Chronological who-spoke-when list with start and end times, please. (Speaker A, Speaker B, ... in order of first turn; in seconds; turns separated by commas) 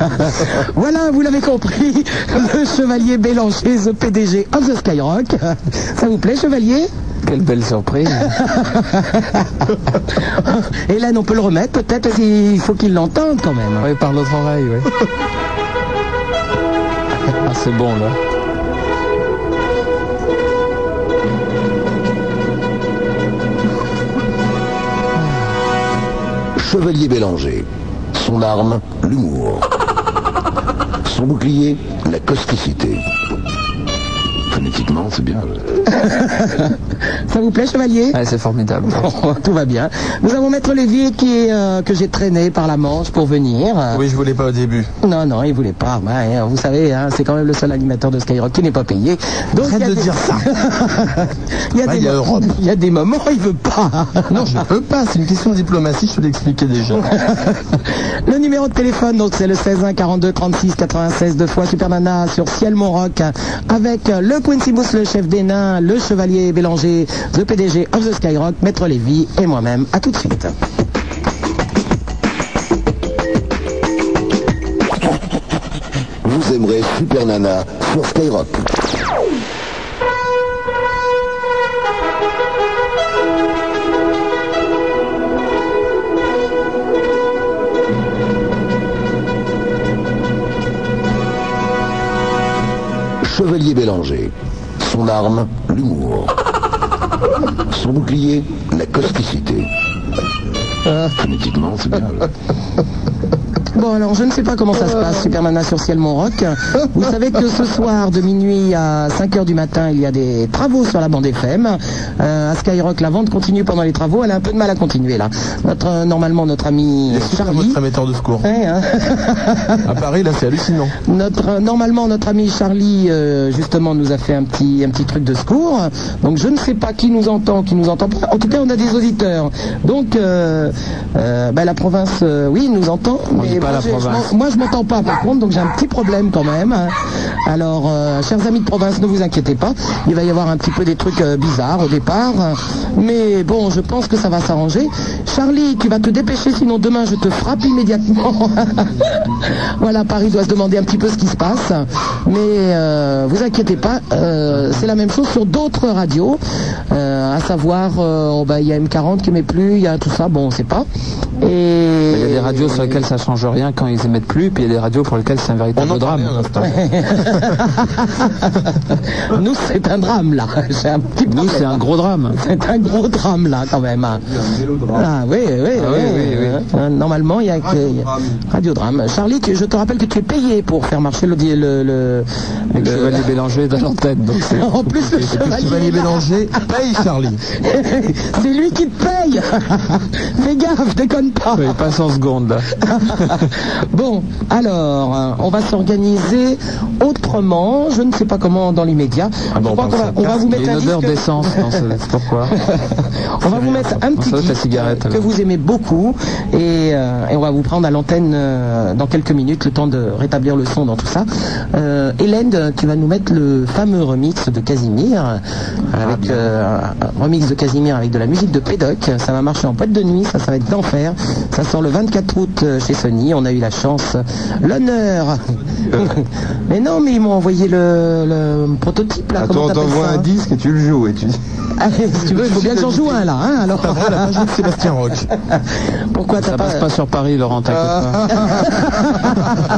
Speaker A: 0.2-6.9, Speaker B: 7.2-8.4, Speaker A: 8.2-13.9, Speaker B: 13.8-14.9, Speaker B: 17.4-18.2, Speaker C: 26.6-29.7, Speaker C: 31.1-33.0, Speaker C: 34.5-35.8, Speaker A: 35.9-36.8, Speaker A: 37.3-38.2, Speaker B: 38.1-39.1, Speaker A: 38.9-44.0, Speaker D: 43.9-44.9, Speaker A: 45.0-54.6, Speaker D: 49.6-50.5, Speaker D: 51.8-52.5, Speaker D: 54.3-57.0, Speaker A: 57.1-70.5, Speaker C: 76.2-78.7, Speaker C: 93.2-96.3, Speaker C: 97.7-99.7, Speaker C: 100.9-102.3, Speaker A: 103.7-117.8, Speaker D: 117.1-118.5, Speaker A: 118.4-119.9, Speaker D: 119.8-120.9, Speaker A: 121.0-160.9, Speaker B: 133.3-134.3, Speaker A: 161.4-162.9, Speaker B: 162.1-166.4, Speaker D: 165.8-167.6, Speaker A: 166.6-171.8, Speaker B: 171.3-172.4, Speaker A: 172.4-174.3, Speaker E: 174.4-175.1, Speaker A: 174.9-183.3, Speaker B: 175.7-176.6, Speaker E: 177.7-178.4, Speaker B: 182.7-185.5, Speaker A: 184.4-186.3, Speaker D: 185.4-187.4, Speaker A: 187.5-191.8, Speaker B: 191.6-193.5, Speaker A: 192.8-201.8, Speaker D: 199.6-200.5, Speaker B: 200.5-202.6, Speaker A: 202.6-225.4, Speaker B: 203.5-205.3, Speaker E: 225.9-226.2, Speaker A: 226.0-230.3, Speaker E: 229.4-231.4, Speaker A: 231.8-234.5, Speaker E: 232.2-233.3, Speaker D: 233.8-235.3, Speaker A: 235.5-236.9, Speaker B: 236.4-238.6, Speaker E: 237.7-238.8, Speaker A: 238.3-239.5